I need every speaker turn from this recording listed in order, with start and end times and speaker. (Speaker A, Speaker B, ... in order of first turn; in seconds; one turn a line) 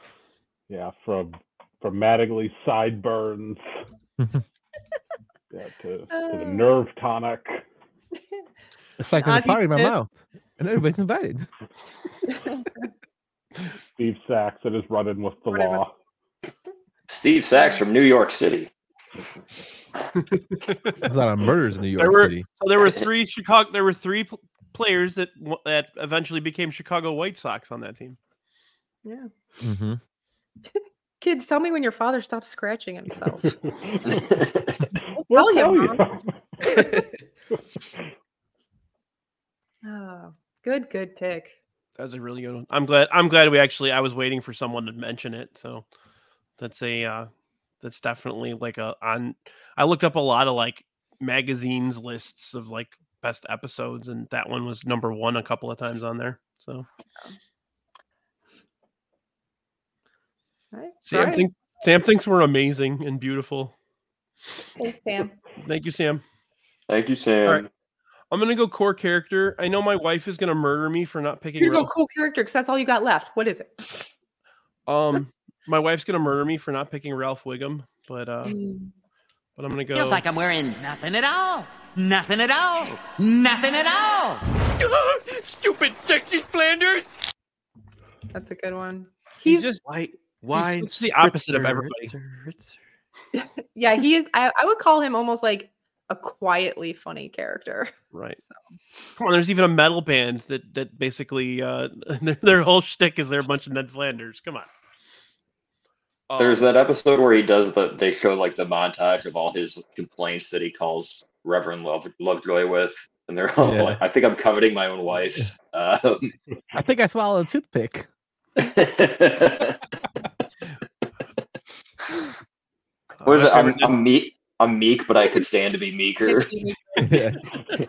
Speaker A: 0.7-3.6
Speaker A: 5.5-7.6
Speaker B: 6.1-6.7
Speaker C: 9.0-11.5
Speaker B: 9.2-9.9
Speaker B: 12.3-12.6
Speaker A: 14.0-15.9
Speaker B: 15.5-15.8
Speaker D: 17.1-18.7
Speaker C: 21.0-22.4
Speaker E: 22.0-28.2
Speaker C: 29.6-30.0
Speaker B: 30.7-33.5
Speaker A: 35.3-36.3
Speaker B: 35.3-36.0
Speaker B: 36.7-37.0
Speaker B: 39.8-41.5
Speaker E: 42.0-45.8
Speaker E: 46.6-47.3
Speaker E: 47.8-56.9
Speaker B: 60.7-61.5
Speaker E: 61.1-63.7
Speaker B: 64.8-65.3
Speaker E: 65.6-66.2
Speaker D: 66.9-67.7
Speaker E: 68.3-71.9
Speaker B: 71.6-73.9
Speaker E: 74.9-78.5
Speaker B: 78.5-78.9
Speaker E: 79.6-80.2
Speaker F: 79.9-84.4
Speaker G: 84.8-87.0
Speaker B: 88.3-89.7
Speaker E: 89.5-89.8
Speaker H: 89.9-92.8
Speaker E: 90.5-92.1
Speaker B: 93.3-97.9
Speaker E: 98.1-98.4
Speaker E: 99.2-104.7
Speaker E: 106.3-106.7
Speaker D: 106.4-116.3
Speaker C: 113.6-114.0
Speaker C: 116.7-118.1
Speaker D: 118.6-119.8
Speaker E: 123.2-124.0
Speaker D: 123.2-126.5
Speaker B: 126.2-127.1
Speaker C: 127.0-127.4